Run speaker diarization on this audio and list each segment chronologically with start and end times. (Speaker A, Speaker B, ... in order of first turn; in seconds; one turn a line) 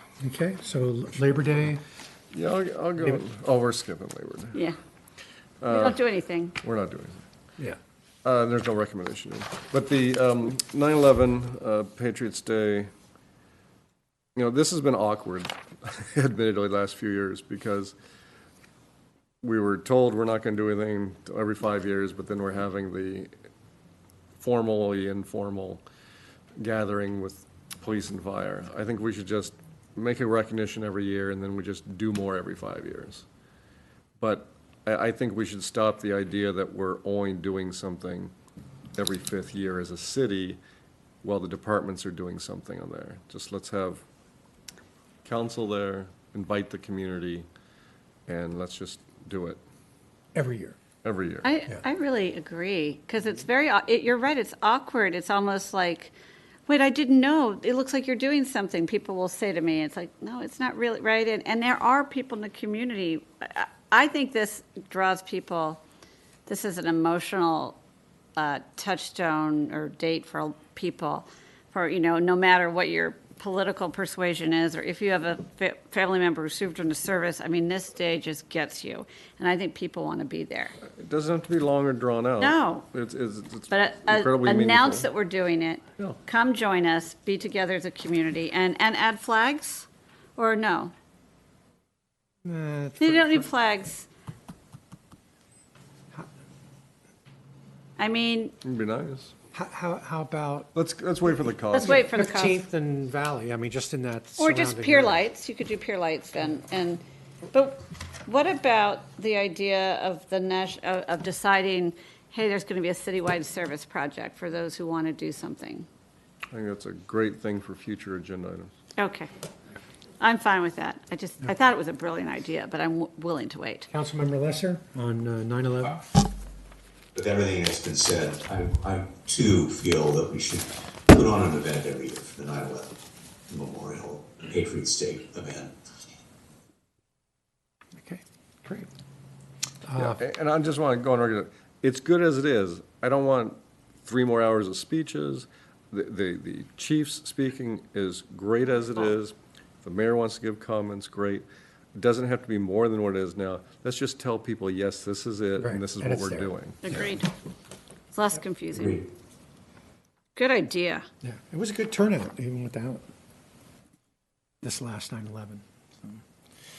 Speaker A: 0.2-1.8
Speaker B: 2.3-4.6
Speaker B: 5.6-6.0
Speaker C: 5.7-6.6
Speaker B: 6.6-7.2
Speaker B: 8.2-12.9
Speaker B: 14.4-17.9
Speaker B: 19.4-23.3
Speaker B: 24.4-25.8
Speaker B: 26.6-33.2
Speaker B: 34.2-38.3
Speaker B: 39.0-40.6
Speaker B: 41.2-44.0
Speaker B: 45.2-47.5
Speaker B: 48.3-49.6
Speaker A: 50.4-50.8
Speaker B: 51.0-51.5
Speaker C: 51.4-56.1
Speaker C: 56.7-65.8
Speaker C: 66.5-67.8
Speaker C: 68.4-80.7
Speaker B: 80.9-85.1
Speaker C: 82.4-82.9
Speaker C: 83.7-90.9
Speaker A: 92.5-93.5
Speaker C: 93.0-94.1
Speaker C: 98.0-98.5
Speaker B: 98.6-99.3
Speaker A: 99.5-100.7
Speaker B: 100.7-102.1
Speaker C: 101.7-102.6
Speaker A: 101.8-105.2
Speaker C: 104.4-107.0
Speaker C: 107.5-115.9
Speaker B: 116.5-118.7
Speaker C: 119.0-119.3
Speaker C: 120.2-123.9
Speaker A: 123.9-126.0
Speaker D: 127.2-133.0
Speaker D: 133.5-135.7
Speaker A: 138.0-138.9
Speaker A: 139.9-140.2
Speaker B: 140.0-157.0
Speaker A: 155.6-156.5
Speaker C: 156.8-157.3
Speaker C: 158.1-159.0
Speaker D: 158.8-159.0
Speaker C: 160.4-161.1
Speaker A: 161.2-163.0
Speaker A: 164.6-166.2